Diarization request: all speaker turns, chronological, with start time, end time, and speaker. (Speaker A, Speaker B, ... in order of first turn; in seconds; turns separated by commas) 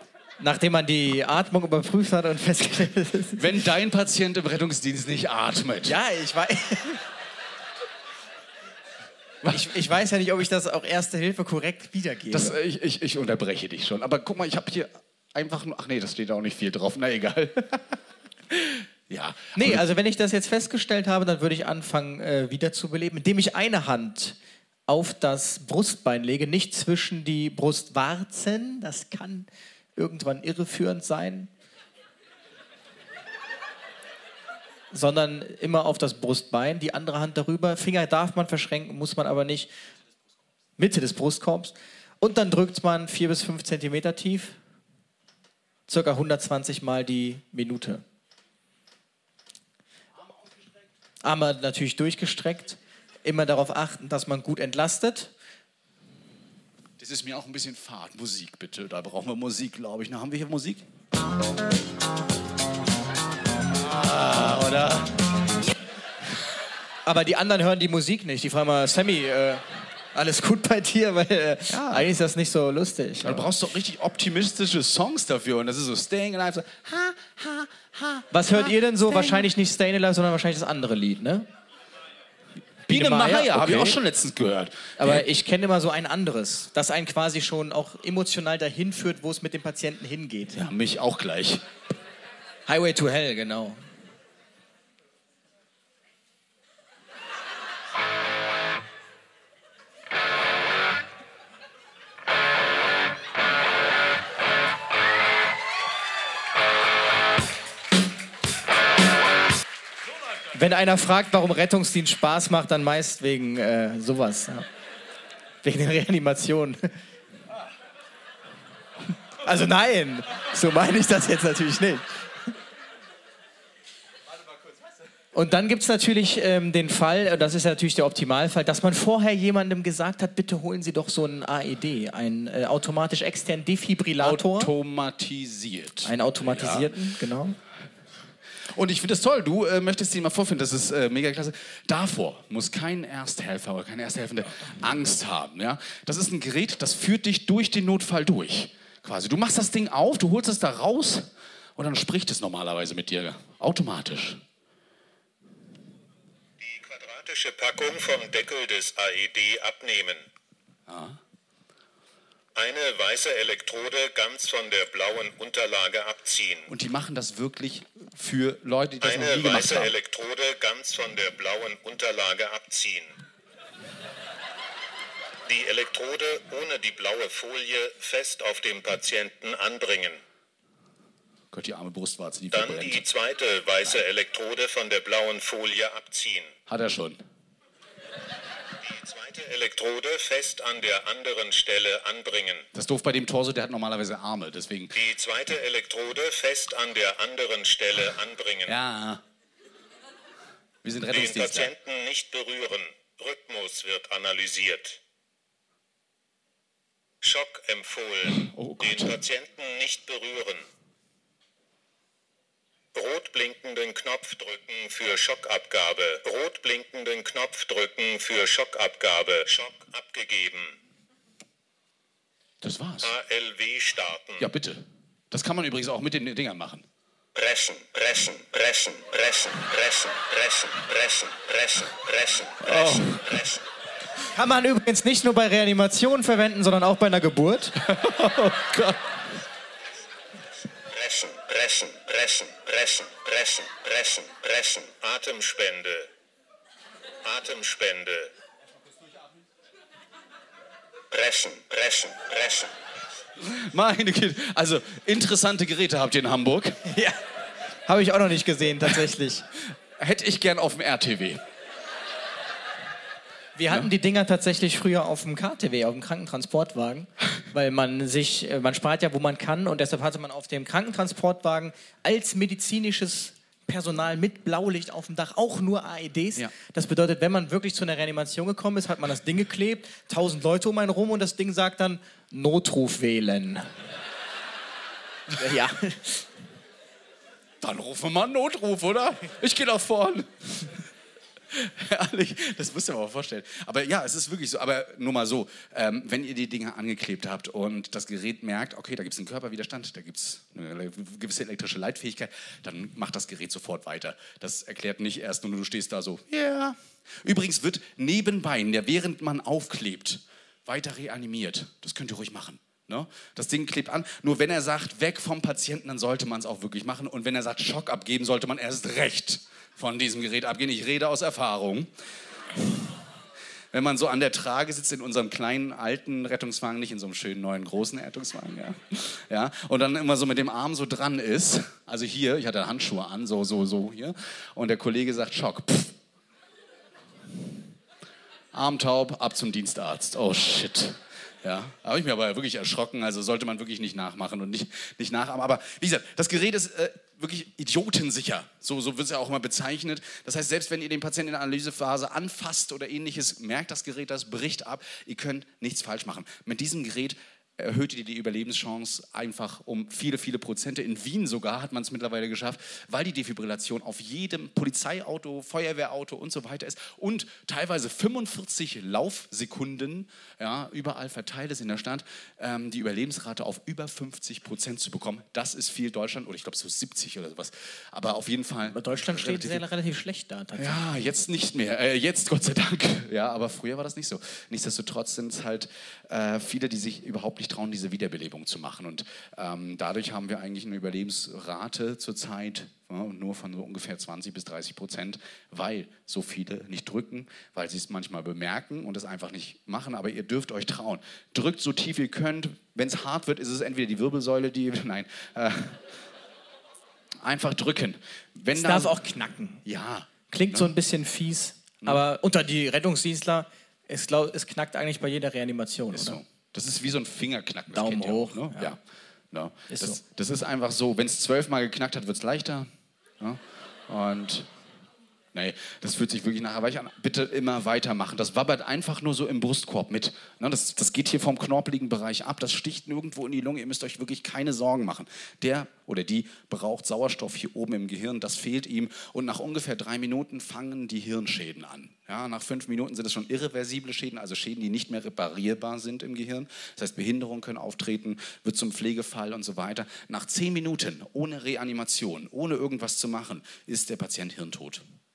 Speaker A: 0.4-3.5, Speaker B: 3.4-6.0, Speaker A: 5.8-7.0, Speaker B: 9.4-9.7, Speaker A: 9.5-12.6, Speaker B: 12.3-18.0, Speaker B: 18.5-19.8, Speaker A: 19.6-31.5, Speaker A: 34.9-39.7, Speaker A: 40.8-44.6, Speaker A: 45.9-48.0, Speaker A: 51.2-55.3, Speaker B: 57.0-60.9, Speaker B: 63.7-65.2, Speaker A: 67.1-73.5, Speaker B: 71.7-72.1, Speaker B: 73.2-79.5, Speaker A: 78.3-81.5, Speaker A: 82.9-84.0, Speaker B: 82.9-85.2, Speaker A: 85.0-90.6, Speaker B: 90.5-91.7, Speaker A: 92.7-93.8, Speaker A: 110.5-114.7, Speaker A: 115.6-117.0, Speaker A: 119.4-122.5, Speaker A: 125.3-134.7, Speaker B: 134.2-137.0, Speaker A: 136.1-137.6, Speaker B: 138.7-154.4, Speaker C: 156.6-160.3, Speaker B: 160.9-161.2, Speaker C: 162.6-166.7, Speaker B: 166.7-170.0, Speaker C: 169.0-173.2, Speaker C: 175.5-180.2, Speaker B: 181.5-183.1, Speaker C: 182.5-186.5, Speaker B: 186.7-187.2, Speaker C: 188.8-192.7, Speaker B: 192.7-195.0, Speaker C: 194.9-198.8, Speaker B: 198.7-199.2, Speaker B: 200.8-201.7, Speaker C: 201.1-205.0, Speaker C: 207.2-210.7, Speaker B: 208.4-209.2, Speaker C: 212.9-220.8, Speaker B: 222.6-223.1, Speaker C: 223.0-224.5, Speaker B: 224.4-226.9, Speaker C: 227.3-233.6, Speaker B: 232.7-233.3, Speaker A: 234.3-237.8, Speaker B: 237.8-239.1, Speaker C: 240.8-246.1, Speaker C: 247.2-248.3, Speaker C: 251.1-252.7, Speaker B: 253.4-256.8, Speaker A: 256.9-257.2, Speaker A: 257.9-259.5, Speaker B: 260.0-261.4, Speaker A: 263.6-283.7, Speaker A: 285.3-286.3, Speaker B: 287.6-290.8, Speaker B: 291.5-321.9, Speaker B: 322.6-322.9, Speaker B: 323.7-336.0, Speaker B: 338.5-379.6, Speaker A: 378.7-380.8, Speaker B: 380.6-406.0, Speaker B: 407.2-409.0, Speaker A: 408.5-409.6, Speaker B: 409.6-410.7, Speaker A: 410.3-416.2, Speaker B: 415.9-418.8, Speaker A: 417.7-418.7, Speaker B: 419.3-424.5, Speaker A: 419.7-420.0, Speaker B: 425.3-454.8